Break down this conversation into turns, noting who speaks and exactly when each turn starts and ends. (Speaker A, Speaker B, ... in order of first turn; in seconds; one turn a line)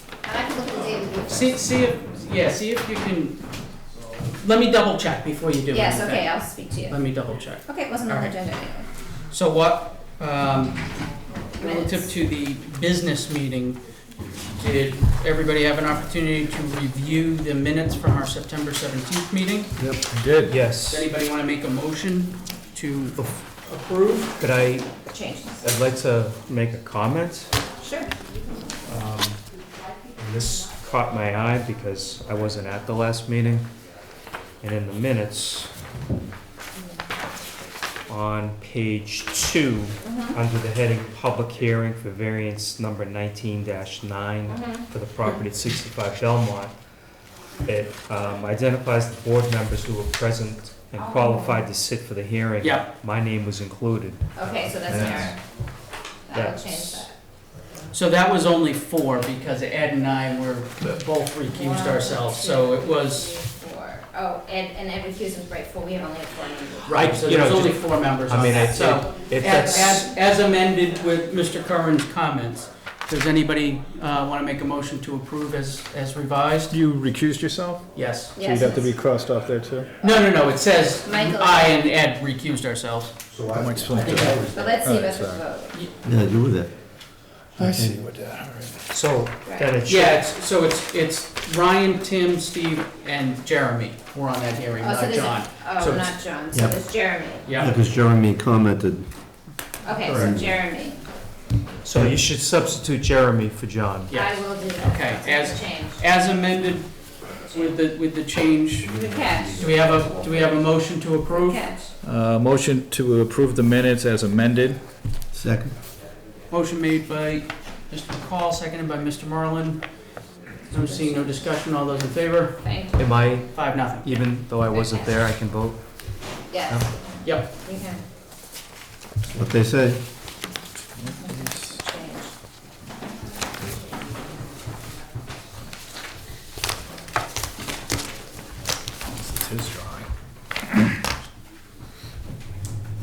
Speaker A: 0.2-1.5
Speaker B: 1.3-3.4
Speaker B: 4.4-8.4
Speaker A: 5.7-7.0
Speaker A: 7.7-8.9
Speaker B: 9.3-10.8
Speaker A: 11.5-12.1
Speaker B: 11.6-13.8
Speaker B: 14.5-19.9
Speaker C: 19.8-20.6
Speaker D: 20.5-21.1
Speaker B: 20.8-24.4
Speaker D: 24.4-24.9
Speaker A: 25.1-25.8
Speaker D: 25.6-27.5
Speaker A: 27.8-28.1
Speaker D: 28.9-29.4
Speaker D: 30.2-33.7
Speaker D: 34.6-35.7
Speaker D: 38.1-46.8
Speaker A: 40.0-40.4
Speaker A: 44.5-44.9
Speaker D: 47.6-55.4
Speaker A: 51.0-51.6
Speaker B: 52.6-52.9
Speaker A: 54.4-55.4
Speaker A: 56.3-57.1
Speaker D: 56.3-57.1
Speaker B: 57.9-63.4
Speaker A: 61.5-67.1
Speaker B: 66.9-76.8
Speaker D: 66.9-70.1
Speaker A: 69.5-70.0
Speaker C: 76.7-79.9
Speaker B: 77.9-78.4
Speaker A: 78.3-78.9
Speaker B: 80.0-83.1
Speaker A: 81.0-81.8
Speaker E: 83.3-84.7
Speaker C: 83.5-85.5
Speaker A: 84.5-85.8
Speaker F: 86.0-86.7
Speaker E: 86.1-86.7
Speaker C: 87.6-88.8
Speaker E: 87.6-87.9
Speaker D: 88.9-90.2
Speaker A: 89.5-89.8
Speaker B: 89.9-96.2
Speaker A: 94.8-97.7
Speaker B: 97.5-97.8
Speaker E: 97.6-99.0
Speaker F: 97.9-98.7
Speaker A: 99.8-101.0
Speaker E: 100.1-100.6
Speaker D: 101.8-104.1
Speaker B: 104.1-111.7
Speaker A: 104.1-106.0
Speaker E: 108.8-110.6
Speaker A: 109.0-109.6
Speaker A: 111.3-111.9
Speaker C: 112.0-114.8
Speaker F: 115.3-115.7
Speaker B: 116.5-120.1
Speaker B: 120.7-122.6
Speaker A: 122.6-123.1
Speaker D: 123.0-126.2
Speaker B: 123.3-124.2
Speaker A: 124.6-125.2
Speaker A: 126.5-128.0
Speaker B: 127.2-127.5
Speaker F: 129.3-130.0
Speaker C: 131.0-131.8
Speaker A: 131.2-132.3
Speaker C: 139.2-140.1